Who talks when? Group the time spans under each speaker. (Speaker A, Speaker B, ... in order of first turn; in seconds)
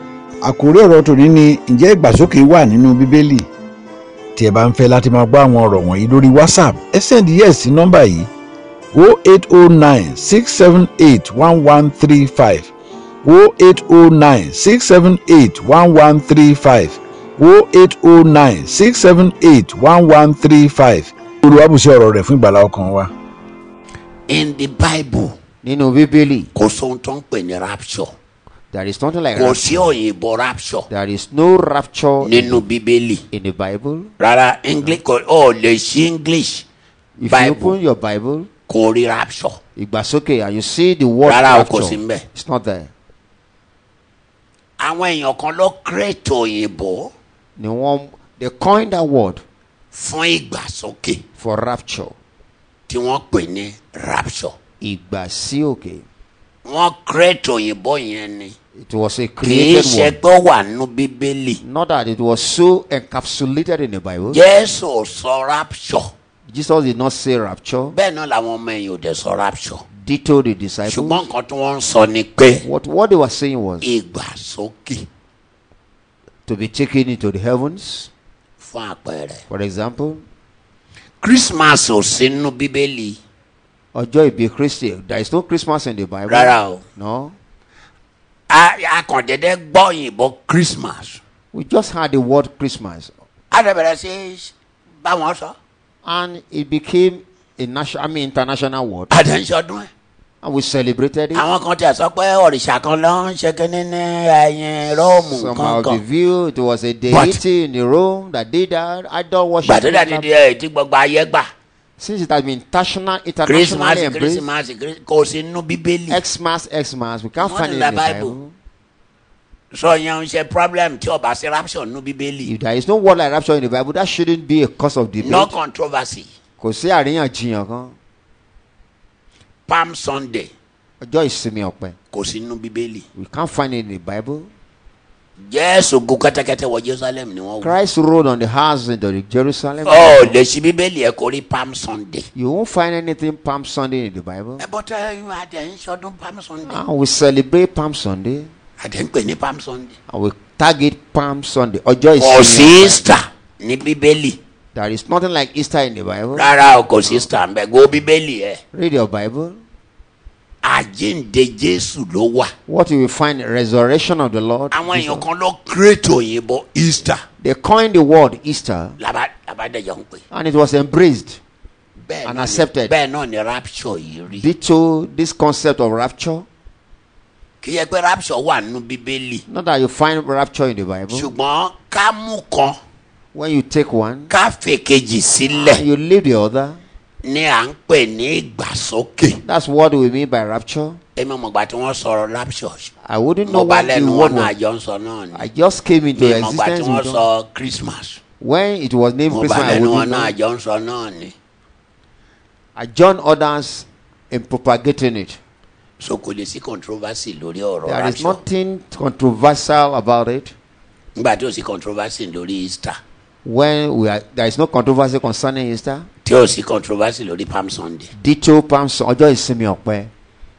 Speaker A: 0.4-3.5, 4.4-8.3, 8.9-12.7, 13.2-23.1
Speaker B: 24.3-25.4, 26.5-28.1, 29.3-30.9, 32.2-33.2, 34.2-36.6, 37.3-37.8, 38.7-39.6, 41.2-42.2, 44.8-47.1, 49.9-51.2, 52.9-54.5, 56.6-58.5, 59.4-61.6, 64.3-66.1, 67.9-69.8, 70.9-72.6, 73.8-75.1, 78.6-79.4, 81.2-83.2, 86.3-86.8, 88.5-91.2, 93.5-95.5, 99.1-99.9, 101.3-106.0, 107.1-107.4, 109.6-111.5, 113.5-116.2, 117.4-118.4, 119.7-122.5, 125.2-126.3, 129.7-130.5, 132.1-133.1, 135.4-137.8, 139.8-142.2, 144.6-146.8, 148.8-149.9, 152.2-154.4, 156.3-158.6, 160.6-162.5, 164.7-167.2, 169.0-170.2, 172.0-174.5, 177.6-179.4, 181.1-182.8, 184.3-185.8, 187.2-189.4, 191.2-192.9, 193.4-195.5, 196.2-198.2, 199.3-201.3, 206.0-208.4, 211.2-213.0, 216.2-218.1
Speaker C: 25.6-26.5, 28.7-30.0, 30.9-32.6, 33.3-34.1, 37.2-38.5, 39.8-42.9, 47.6-49.4, 51.4-52.1, 54.8-56.0, 58.8-60.2, 61.6-64.4, 66.5-68.0, 70.0-71.2, 72.6-73.9, 76.5-78.1, 79.5-80.2, 83.9-87.4, 91.5-93.1, 96.0-99.1, 100.4-101.5, 105.0-110.3, 112.0-114.5, 116.1-118.5, 122.4-125.6, 126.6-128.0, 131.0-132.0, 133.2-134.5, 137.6-140.4, 142.3-144.6, 146.7-148.5, 150.1-153.1, 154.7-156.5, 158.7-159.6, 162.7-165.2, 167.4-169.0, 170.3-171.4, 172.2-172.9, 174.3-176.5, 179.5-181.3, 183.3-184.3, 185.5-186.8, 189.4-191.0, 193.0-194.5, 195.3-197.2, 198.4-200.3, 202.8-205.4, 207.8-210.5, 213.4-216.1, 218.2-220.1